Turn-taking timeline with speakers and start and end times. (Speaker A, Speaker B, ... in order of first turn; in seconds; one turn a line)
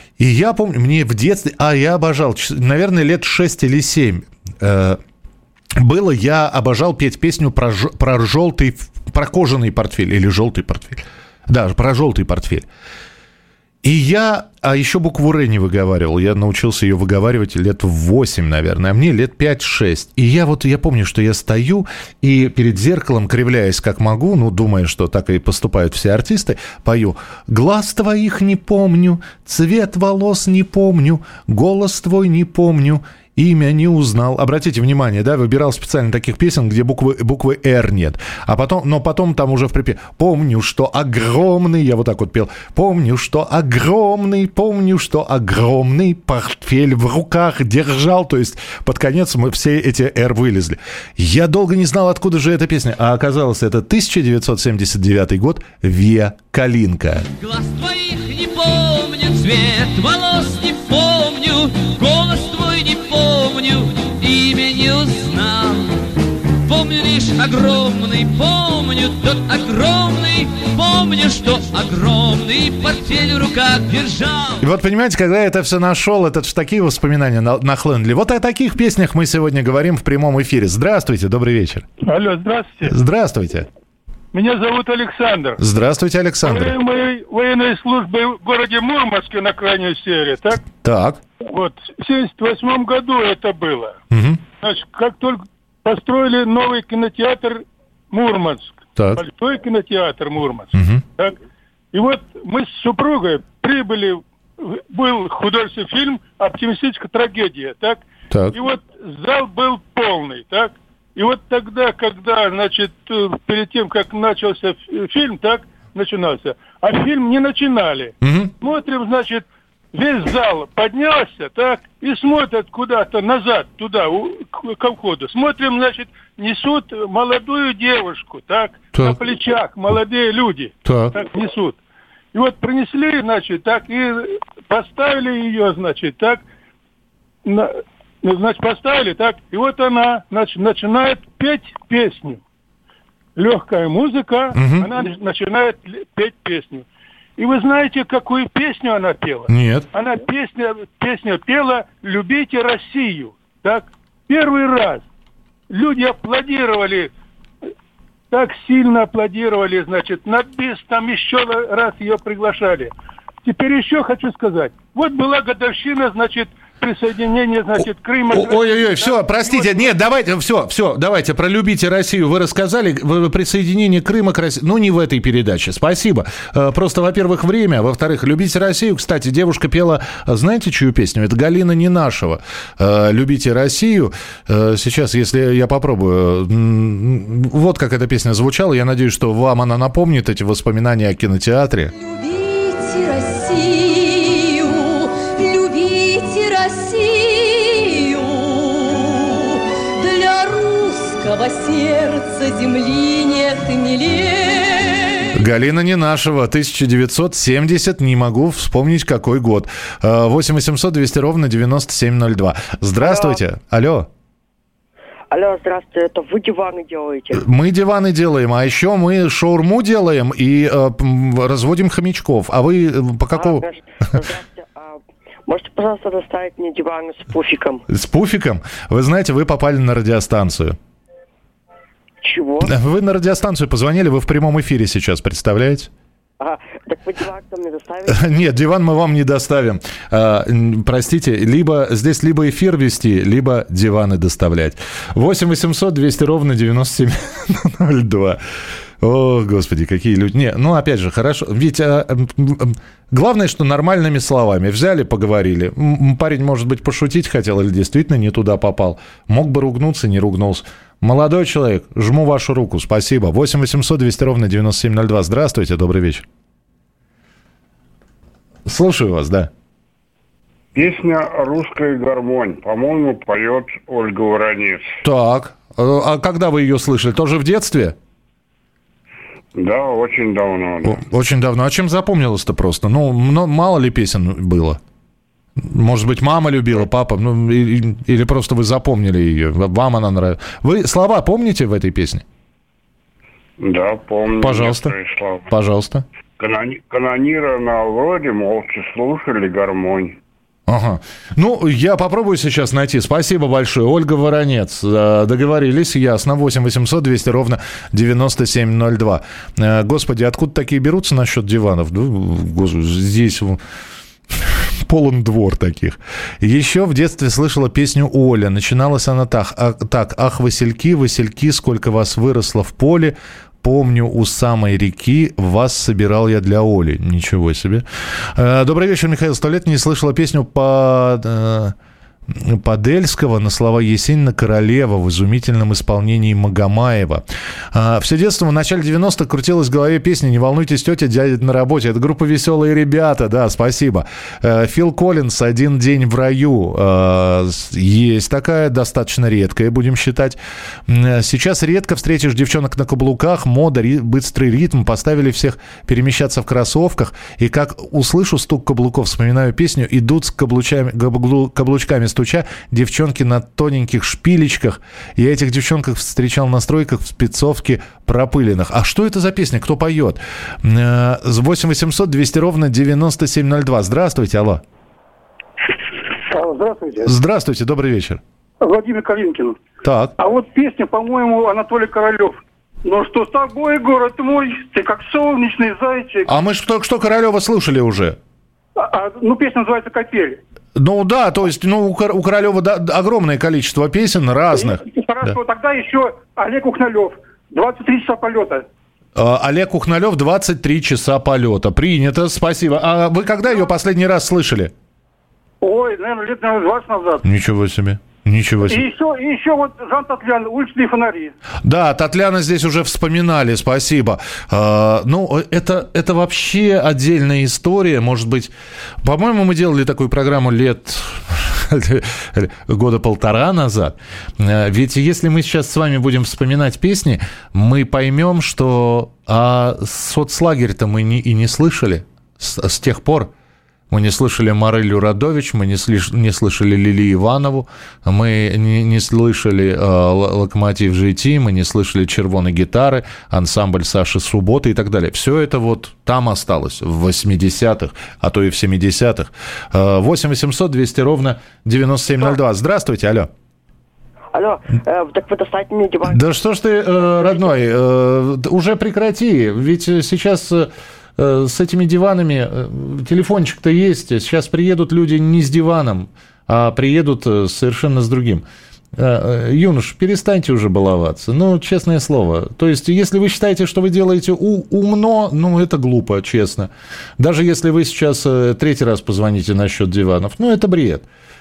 Speaker A: 0.2-5.0
Speaker A: 5.8-12.7
Speaker A: 13.8-57.3
Speaker B: 57.4-66.1
Speaker B: 66.6-74.7
Speaker A: 74.6-81.9
Speaker C: 82.0-82.9
Speaker A: 82.9-83.7
Speaker C: 84.3-85.6
Speaker A: 85.6-86.8
Speaker C: 86.4-90.6
Speaker A: 90.8-91.2
Speaker C: 91.5-94.0
Speaker A: 94.1-94.4
Speaker C: 94.6-101.3
Speaker A: 99.0-99.2
Speaker A: 100.8-101.0
Speaker C: 101.9-131.8
Speaker A: 108.3-108.6
Speaker A: 118.2-118.5
Speaker A: 130.8-131.1
Speaker C: 132.3-136.4
Speaker C: 137.4-142.4
Speaker C: 143.4-146.8
Speaker A: 144.5-144.9
Speaker C: 147.4-155.1
Speaker A: 149.5-149.9
Speaker C: 155.7-157.1
Speaker C: 158.3-162.9
Speaker C: 163.4-169.9
Speaker A: 168.3-191.9
Speaker D: 191.9-205.4
Speaker A: 205.3-214.1
Speaker E: 213.0-213.4
Speaker E: 215.3-217.4
Speaker A: 217.3-223.7
Speaker E: 223.3-227.8
Speaker A: 227.9-230.8
Speaker E: 232.2-232.7
Speaker A: 232.6-235.9
Speaker E: 236.4-238.5
Speaker A: 238.1-248.4
Speaker A: 249.0-266.2
Speaker A: 268.7-269.5
Speaker F: 270.8-274.9
Speaker A: 275.0-277.9
Speaker F: 279.6-281.0
Speaker A: 280.9-284.8
Speaker A: 285.6-292.2
Speaker F: 293.6-295.5
Speaker A: 294.4-294.9
Speaker A: 295.5-296.0
Speaker F: 296.4-300.2
Speaker A: 300.7-313.6
Speaker A: 314.5-327.8
Speaker A: 328.4-331.8
Speaker A: 332.3-374.6
Speaker G: 376.3-377.1
Speaker A: 377.0-378.2
Speaker G: 378.6-379.6
Speaker A: 379.8-380.1
Speaker G: 380.2-386.3
Speaker A: 386.3-388.2
Speaker G: 388.8-390.4
Speaker A: 390.8-394.8
Speaker G: 394.5-398.6
Speaker A: 399.2-404.7
Speaker G: 405.6-407.2
Speaker A: 407.2-408.9
Speaker G: 408.7-411.3
Speaker A: 411.6-418.5
Speaker A: 419.0-433.3
Speaker A: 433.9-453.3
Speaker E: 454.3-456.2
Speaker A: 456.1-468.4
Speaker E: 457.0-457.5
Speaker A: 469.0-481.1